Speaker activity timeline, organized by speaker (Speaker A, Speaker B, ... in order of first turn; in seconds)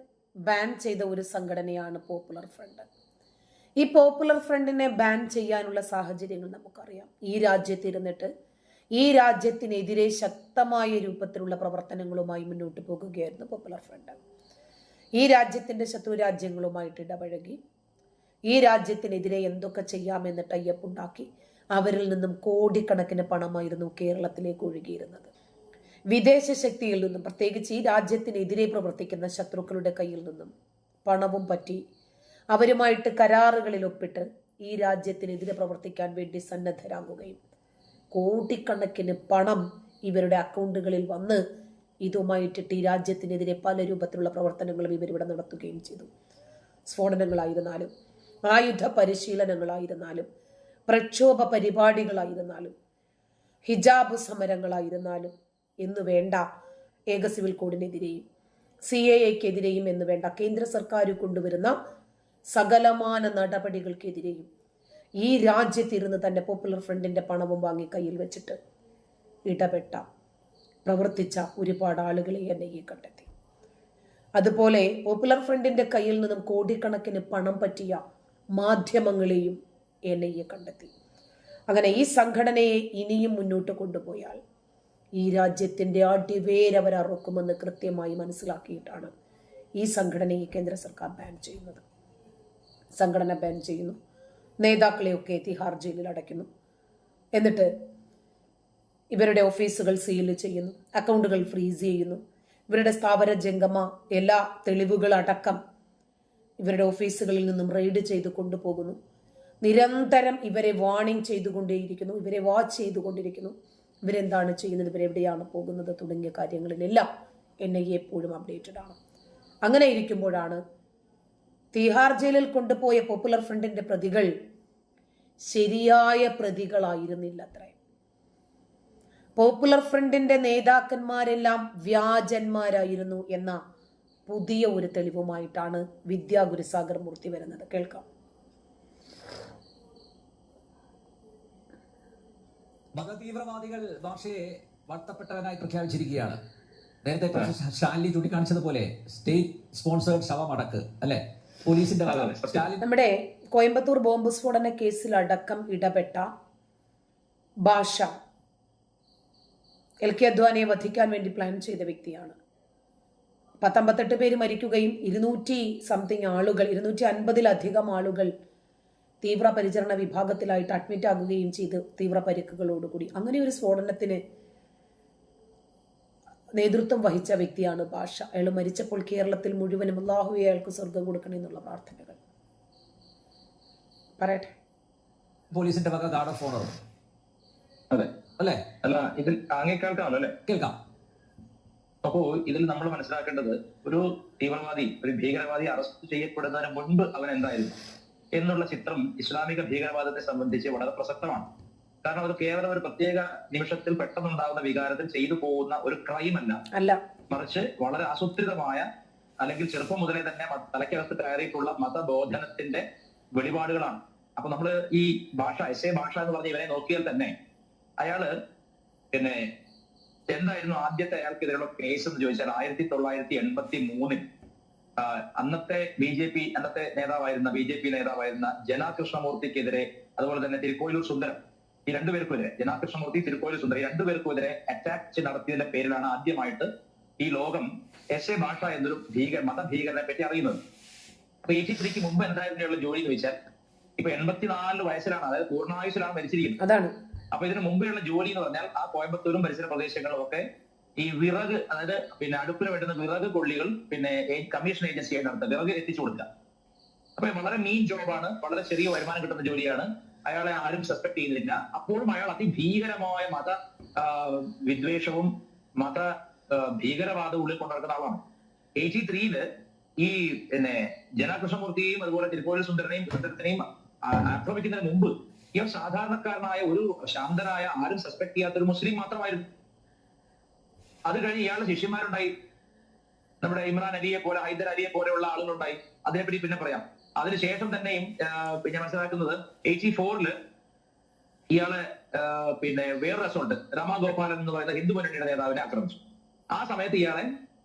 Speaker A: 0.5-2.9, 3.8-8.3, 9.0-14.2, 15.2-17.6, 18.5-25.3, 26.1-30.5, 31.0-31.8, 32.5-37.4, 38.1-41.4, 42.0-46.1, 46.9-47.9, 48.4-50.3, 50.9-52.7, 53.6-56.5, 57.1-58.2, 58.9-61.7, 62.5-64.5, 65.2-68.6, 69.5-70.0, 70.8-73.3, 74.4-78.0, 78.5-79.6, 80.1-80.9, 81.7-84.4, 85.2-89.1, 89.8-91.8, 93.0-94.0, 94.6-96.5, 97.3-97.7, 99.1-105.6, 106.6-109.0, 109.6-113.5, 114.0-117.1, 117.6-119.0, 119.6-120.6, 121.7-124.3, 125.5-127.8, 129.3-133.6, 134.3-138.0, 152.8-156.3, 157.6-158.1, 160.0-162.4, 163.6-168.3, 169.2-174.2, 176.6-182.2, 184.2-184.5, 206.7-207.0, 246.6-246.9
Speaker B: 142.9-146.4, 147.0-152.8, 185.5-186.8, 188.4-188.7, 190.4-190.8
Speaker C: 152.1-152.7, 188.8-190.3, 192.0-197.7, 198.3-201.4, 202.0-206.6, 207.3-208.8, 209.4-212.8, 213.3-217.3, 218.0-218.3, 219.1-219.5, 220.3-224.2, 225.0-236.7, 237.2-240.6, 241.5-243.3, 244.0-246.6, 247.3-250.4, 251.0-256.3, 257.2-268.2, 268.8-269.4, 270.0-279.4, 281.1-282.3, 283.4-290.3, 291.5-296.0, 296.5-297.3